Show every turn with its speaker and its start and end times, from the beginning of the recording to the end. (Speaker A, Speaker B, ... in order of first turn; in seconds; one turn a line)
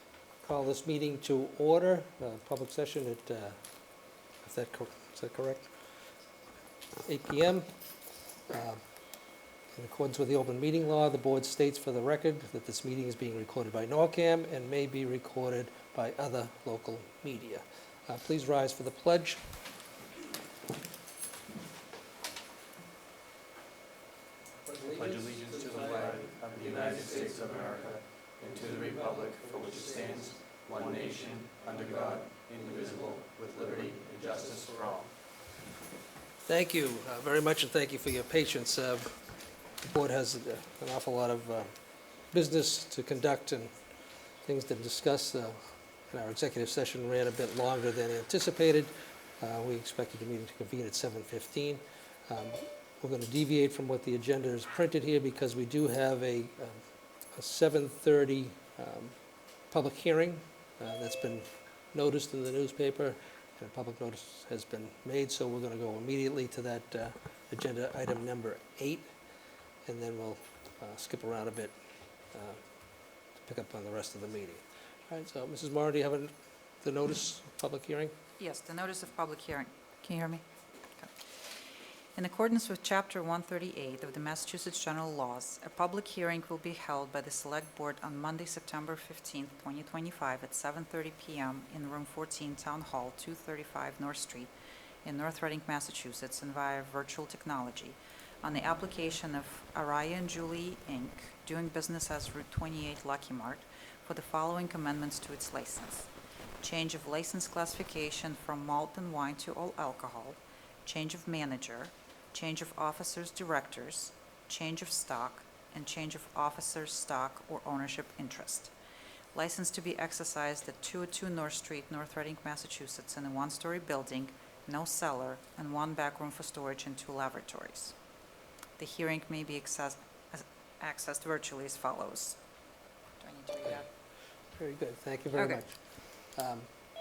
Speaker A: 0.4-3.6
Speaker A: 4.4-5.7
Speaker A: 7.0-7.7
Speaker A: 8.5-8.8
Speaker A: 9.7-19.4
Speaker A: 24.6-27.3
Speaker B: 24.8-35.1
Speaker A: 36.5-39.2
Speaker A: 39.9-41.7
Speaker A: 42.3-43.7
Speaker A: 44.5-56.8
Speaker A: 57.4-59.2
Speaker A: 59.7-69.1
Speaker A: 69.9-71.7
Speaker A: 72.3-72.6
Speaker A: 73.4-78.1
Speaker C: 78.4-80.4
Speaker C: 82.2-94.5
Speaker C: 95.0-106.1
Speaker C: 106.6-118.7
Speaker C: 119.3-127.9
Speaker C: 128.8-132.4
Speaker C: 133.2-133.8
Speaker A: 134.5-135.8
Speaker C: 135.3-135.6
Speaker A: 136.3-136.7